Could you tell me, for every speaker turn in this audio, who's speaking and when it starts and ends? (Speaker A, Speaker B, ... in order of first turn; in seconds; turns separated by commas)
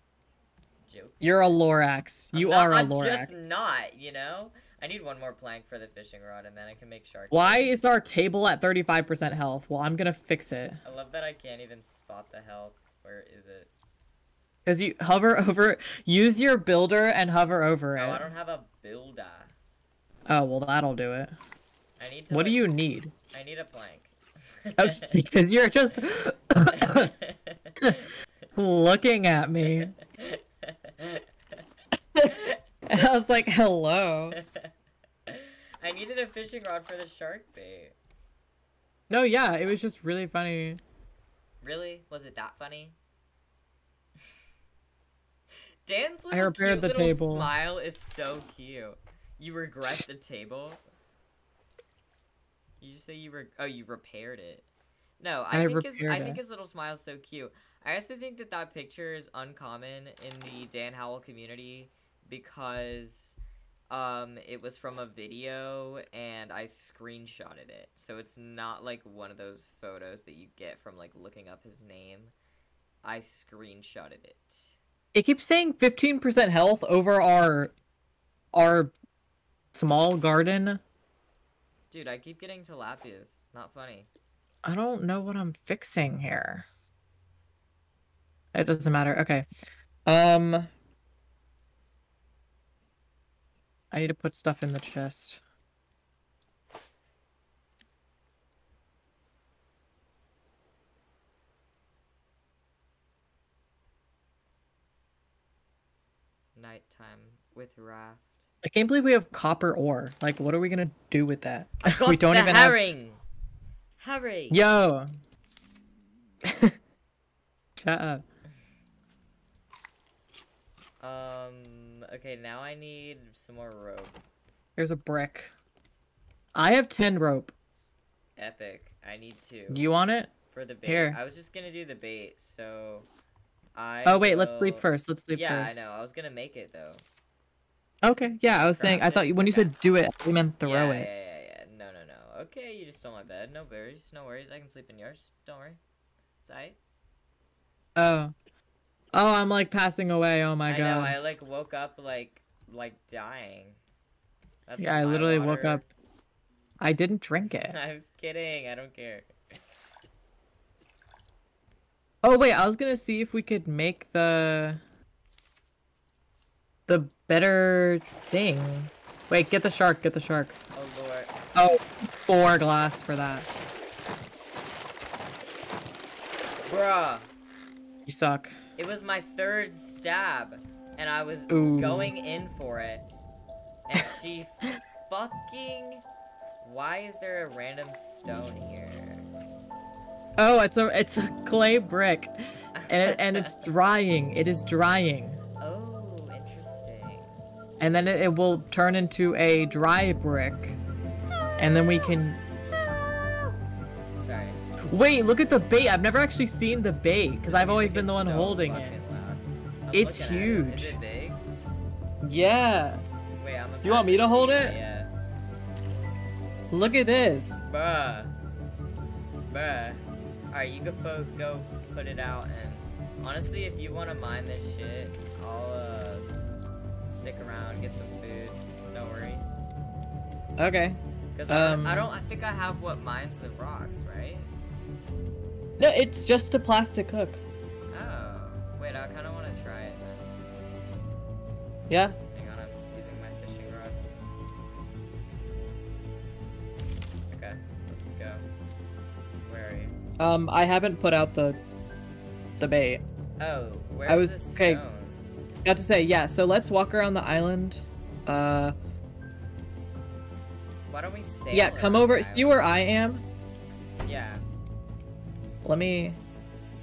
Speaker A: 0.8-1.4, Speaker B: 1.2-3.3, Speaker A: 2.3-7.7, Speaker B: 7.3-10.8, Speaker A: 10.8-13.7, Speaker B: 14.7-18.2, Speaker A: 17.9-19.5, Speaker B: 20.3-21.3, Speaker A: 22.0-22.6, Speaker B: 22.3-23.1, Speaker A: 23.3-25.1, Speaker B: 24.8-27.1, Speaker A: 26.6-28.1, Speaker B: 28.5-29.9, Speaker A: 29.6-31.6, Speaker B: 32.1-34.4, Speaker A: 32.2-33.1, Speaker A: 34.3-34.7, Speaker A: 35.2-37.9, Speaker B: 39.1-40.8, Speaker A: 41.6-43.0, Speaker A: 45.8-50.8, Speaker B: 46.3-47.5, Speaker A: 52.8-54.7, Speaker A: 55.2-63.4, Speaker B: 55.5-56.4, Speaker A: 63.9-72.3, Speaker A: 73.0-74.7, Speaker B: 75.1-77.7, Speaker B: 78.5-78.9, Speaker B: 79.7-80.8, Speaker A: 81.9-84.1, Speaker B: 84.6-86.7, Speaker B: 88.5-89.5, Speaker B: 90.0-90.7, Speaker B: 93.9-95.4, Speaker A: 106.5-108.5, Speaker B: 108.6-112.8, Speaker A: 111.8-113.2, Speaker A: 114.0-114.6, Speaker B: 114.5-115.1, Speaker B: 116.5-116.7, Speaker B: 117.8-118.2, Speaker A: 121.0-124.2, Speaker B: 124.8-125.5, Speaker B: 126.5-127.5, Speaker A: 128.4-129.8, Speaker B: 129.7-130.3, Speaker A: 130.5-133.1, Speaker B: 130.8-131.2, Speaker A: 133.7-137.0, Speaker B: 134.0-135.8, Speaker B: 138.0-141.1, Speaker A: 138.7-139.7, Speaker A: 140.6-145.8, Speaker A: 146.4-146.8, Speaker B: 147.9-148.3, Speaker B: 149.1-151.2, Speaker A: 150.7-153.8, Speaker A: 154.7-155.9, Speaker B: 154.8-155.8, Speaker B: 156.8-157.7, Speaker A: 157.5-159.3, Speaker B: 162.2-164.8, Speaker B: 166.9-170.6, Speaker A: 170.7-171.3, Speaker B: 171.5-173.5, Speaker A: 176.6-177.3, Speaker B: 178.1-178.5, Speaker A: 178.8-183.0, Speaker B: 181.5-182.1, Speaker A: 183.9-186.0, Speaker A: 186.6-189.3, Speaker B: 190.4-192.3, Speaker A: 192.7-193.5, Speaker B: 192.9-195.4, Speaker A: 195.6-197.3, Speaker B: 197.8-200.8, Speaker B: 201.6-202.4, Speaker A: 204.2-204.6, Speaker B: 204.8-209.0, Speaker A: 207.5-211.4, Speaker B: 209.9-211.0, Speaker B: 212.2-213.0, Speaker A: 213.3-215.1, Speaker B: 213.8-214.8, Speaker B: 216.7-217.6, Speaker A: 217.7-218.3, Speaker A: 219.5-226.3, Speaker A: 227.1-229.7, Speaker B: 230.6-232.1, Speaker A: 231.3-234.5, Speaker B: 235.8-237.4, Speaker A: 237.9-240.3, Speaker B: 241.9-242.2, Speaker A: 242.3-244.0, Speaker A: 247.3-248.5, Speaker A: 249.4-249.9, Speaker B: 250.2-251.6, Speaker B: 252.6-253.0, Speaker A: 253.4-255.5, Speaker B: 254.1-254.8, Speaker B: 255.6-258.7, Speaker A: 260.9-262.6, Speaker B: 261.5-263.2, Speaker A: 264.0-264.4, Speaker B: 265.6-266.2